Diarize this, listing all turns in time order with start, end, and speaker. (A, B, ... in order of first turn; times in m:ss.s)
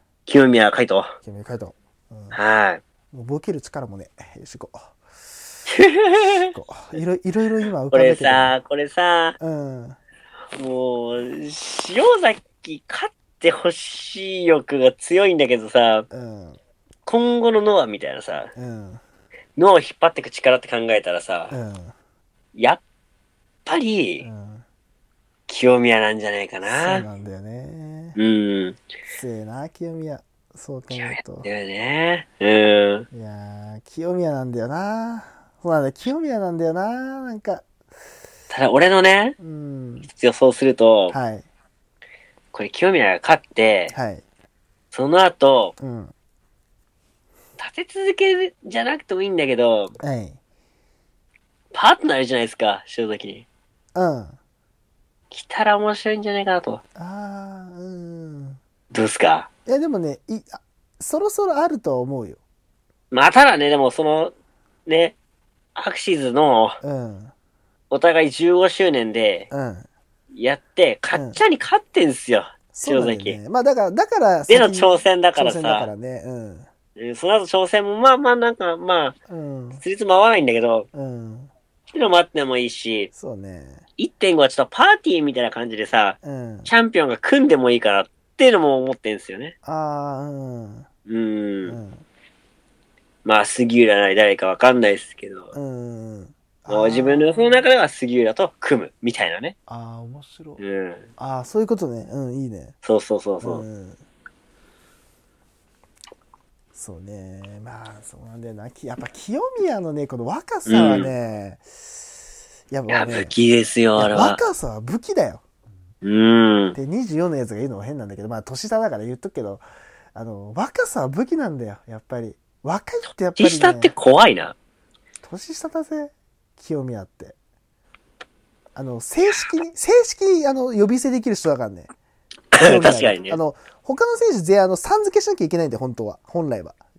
0:00.3-0:01.1 A
0:01.2-0:02.4 B
0:02.3-0:02.8 A
0:03.1-0:05.0 B
0:05.7-0:06.6 A
0:06.5-0:08.6 B
0:07.9-0:09.4 A
0:09.4-0:10.0 B
0:10.6-0:16.1 A
0:16.1-0:16.6 B
0:17.1-0:18.5 A
0:18.6-0:19.0 B
0:19.6-0:21.6 A
0:21.5-0:22.0 B
0:22.6-0:22.8 A
0:23.7-0:24.3 A
0:24.2-0:24.6 B
0:25.5-0:27.1 A
0:26.7-0:28.2 B
0:28.2-0:28.8 A
0:29.1-0:31.5 B
0:30.9-0:33.1 A
0:33.1-0:37.7 B
0:38.5-0:39.4 A
0:39.4-0:40.1 B
0:40.1-0:41.2 A
0:41.1-0:41.4 B
0:42.5-0:43.9 A
0:43.9-0:44.2 B
0:44.9-0:45.8 A
0:45.8-0:46.1 B
0:47.6-0:50.0 A
0:50.0-0:50.4 B
0:51.7-0:53.4 A
0:53.9-0:54.4 B
0:55.3-0:56.8 A
0:57.0-0:58.6 B
0:58.9-0:59.5 A
0:59.7-1:02.4 B
1:03.1-1:04.3 A
1:04.9-1:05.2 A
1:05.8-1:06.8 A
1:06.8-1:07.3 B
1:07.9-1:09.5 A
1:09.5-1:09.9 B
1:10.3-1:13.4 A
1:11.1-1:11.4 B
1:12.7-1:16.7 B
1:14.5-1:15.9 A
1:17.0-1:19.2 A
1:19.3-1:19.8 B
1:19.8-1:20.9 A
1:20.9-1:21.5 B
1:21.9-1:23.1 A
1:23.1-1:23.8 B
1:24.0-1:29.5 A
1:26.2-1:26.7 B
1:29.6-1:30.9 B
1:31.1-1:31.8 A
1:31.7-1:32.0 B
1:33.2-1:35.5 A
1:35.5-1:37.7 B
1:36.7-1:39.6 A
1:39.7-1:40.6 B
1:40.6-1:41.1 A
1:41.2-1:42.8 B
1:42.8-1:43.6 A
1:43.4-1:44.0 B
1:46.8-1:52.1 B
1:50.7-1:51.1 A
1:52.7-1:53.4 B
1:52.9-1:54.4 A
1:54.0-1:55.4 B
1:56.0-1:56.8 A
1:56.8-1:59.6 B
2:00.2-2:03.9 B
2:03.4-2:04.6 A
2:05.2-2:07.4 B
2:08.8-2:11.9 B
2:12.5-2:13.4 A
2:12.6-2:16.8 B